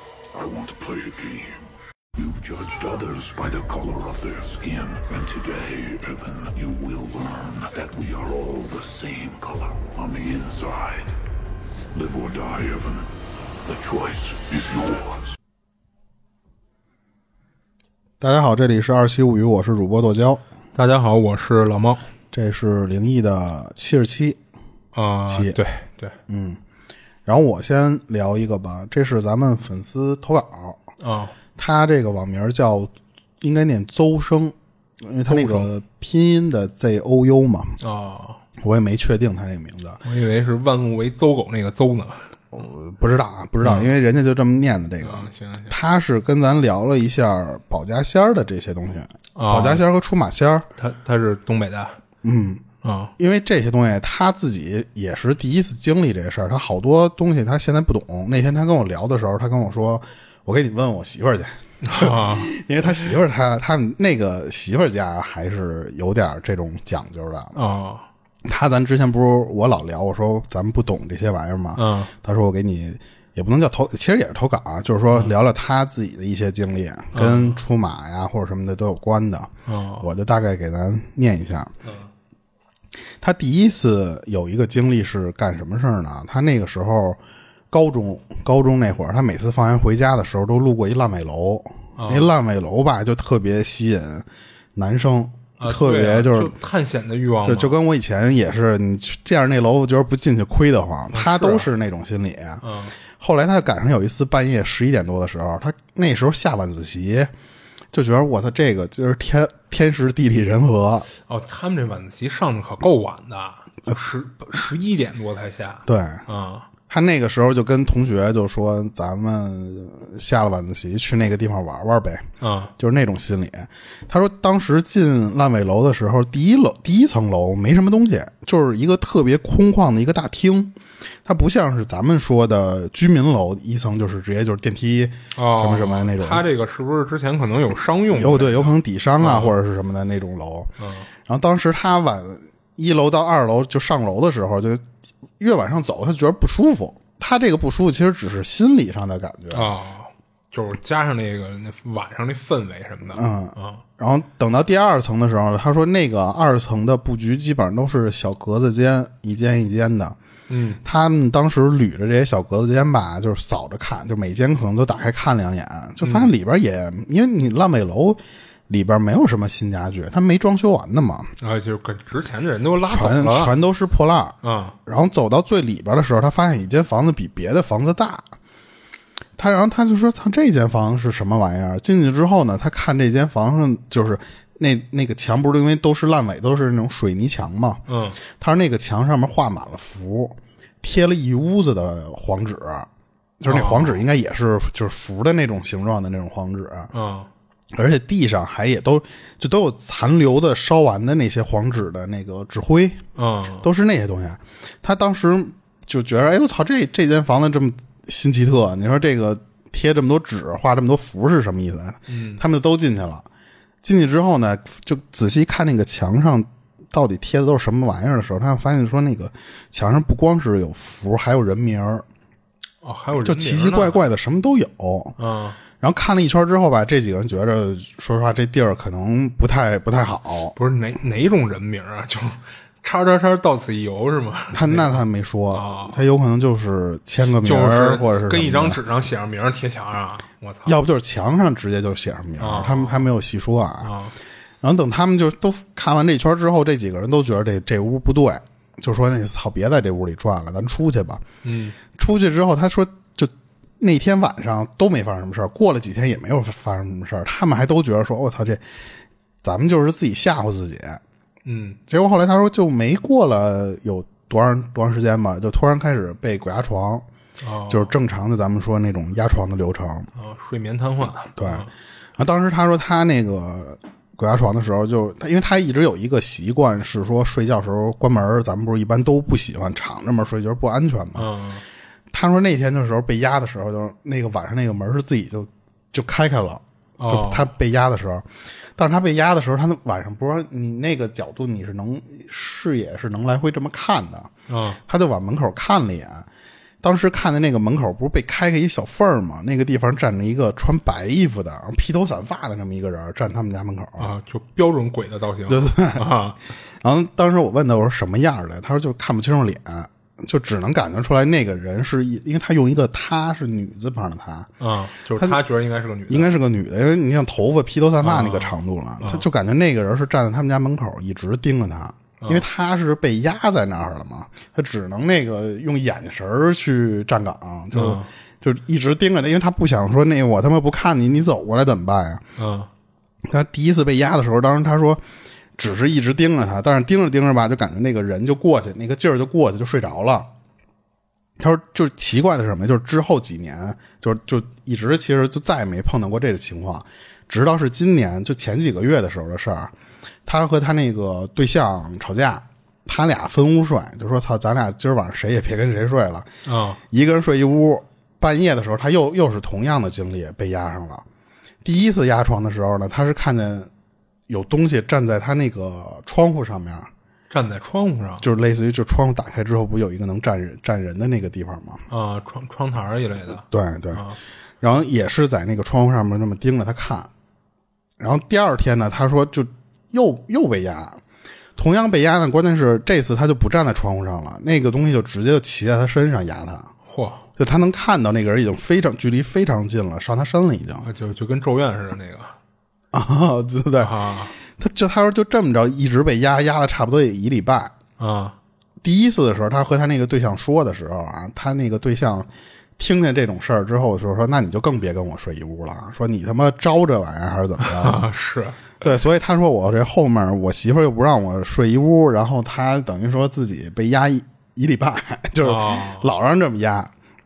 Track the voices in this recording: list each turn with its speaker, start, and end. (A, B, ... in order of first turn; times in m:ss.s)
0:00.3-0:01.6 A
0:02.1-0:11.2 A
0:11.9-0:13.1 A
0:13.6-0:15.3 A
0:18.2-0:20.4 B
0:20.7-0:22.0 C
0:22.3-0:24.4 B
0:24.9-0:26.1 C
0:25.3-0:25.6 B
0:26.3-0:26.6 B
0:27.2-0:30.8 B
0:31.0-0:31.3 C
0:31.6-0:37.8 B
0:35.3-0:35.7 C
0:37.8-0:38.4 C
0:38.6-0:40.0 B
0:40.0-0:42.4 C
0:42.5-0:50.7 B
0:43.6-0:43.9 C
0:45.0-0:45.8 C
0:49.3-0:49.8 C
0:50.8-0:52.0 C
0:52.2-0:52.6 B
0:52.8-0:53.1 C
0:53.2-1:07.6 B
1:01.8-1:02.5 C
1:07.6-1:08.0 C
1:08.4-1:21.7 B
1:11.8-1:12.1 C
1:17.1-1:17.6 C
1:19.6-1:20.1 C
1:21.8-1:22.1 C
1:23.2-1:27.2 B
1:27.7-1:36.5 B
1:32.0-1:32.3 C
1:35.6-1:37.7 C
1:37.4-1:42.6 B
1:41.1-1:41.7 C
1:42.6-1:42.9 C
1:43.2-1:47.3 B
1:47.9-1:51.1 B
1:51.3-1:56.7 C
1:55.8-1:56.2 B
1:56.9-2:02.2 B
2:02.4-2:02.7 C
2:02.8-2:16.5 B
2:15.4-2:19.5 C
2:18.1-2:20.7 B
2:20.8-2:21.1 C
2:21.2-2:24.8 B
2:25.4-2:29.7 B
2:29.5-2:33.8 C
2:33.1-2:40.2 B
2:40.5-2:40.8 C
2:40.8-2:51.3 B
2:46.0-2:46.3 C
2:51.4-2:53.5 C
2:52.8-2:58.3 B
2:54.4-2:54.8 C
2:59.4-3:12.9 B
3:07.9-3:08.2 C
3:13.4-3:16.9 B
3:13.5-3:14.0 C
3:16.9-3:17.3 C
3:17.7-3:23.0 B
3:23.2-3:23.6 C
3:23.6-3:33.3 B
3:32.1-3:32.4 C
3:33.8-3:42.0 B
3:42.8-3:44.0 C
3:43.1-3:45.2 B
3:45.2-3:45.6 C
3:45.8-3:50.5 B
3:50.5-3:56.0 C
3:54.5-3:58.8 B
3:57.2-4:00.8 C
4:00.6-4:03.9 B
4:02.4-4:03.1 C
4:03.8-4:04.1 C
4:04.6-4:11.2 B
4:11.4-4:11.8 C
4:11.9-4:18.6 B
4:19.4-4:21.0 B
4:21.4-4:21.8 C
4:21.9-4:27.1 B
4:27.4-4:27.9 C
4:27.7-4:30.1 B
4:30.2-4:31.7 C
4:31.4-4:41.3 B
4:41.2-4:41.6 C
4:42.1-4:54.3 B
4:47.0-4:47.5 C
4:54.5-4:54.8 C
4:54.8-4:56.3 B
4:56.8-5:04.1 B
5:04.0-5:06.4 C
5:05.5-5:06.1 B
5:06.8-5:14.5 B
5:14.6-5:16.4 C
5:15.2-5:15.4 B
5:16.1-5:32.2 B
5:18.0-5:19.2 C
5:22.2-5:22.4 C
5:27.7-5:28.1 C
5:32.4-5:32.7 C
5:33.3-5:35.0 B
5:35.6-5:40.3 B
5:41.4-5:49.7 B
5:50.2-5:56.3 B
5:56.4-5:56.8 C
5:56.9-6:01.0 B
6:01.6-6:03.7 B
6:04.3-6:06.9 B
6:07.3-6:08.2 C
6:08.2-6:11.8 B
6:11.9-6:14.2 C
6:13.4-6:14.0 B
6:14.6-6:17.1 B
6:18.0-6:21.0 B
6:21.6-6:26.7 B
6:26.9-6:27.2 C
6:27.4-6:30.9 B
6:30.8-6:32.4 C
6:32.9-6:37.7 B
6:33.8-6:34.4 C
6:38.0-6:38.4 C
6:38.8-6:48.1 B
6:47.6-6:48.8 C
6:48.8-6:56.9 B
6:55.4-6:56.1 C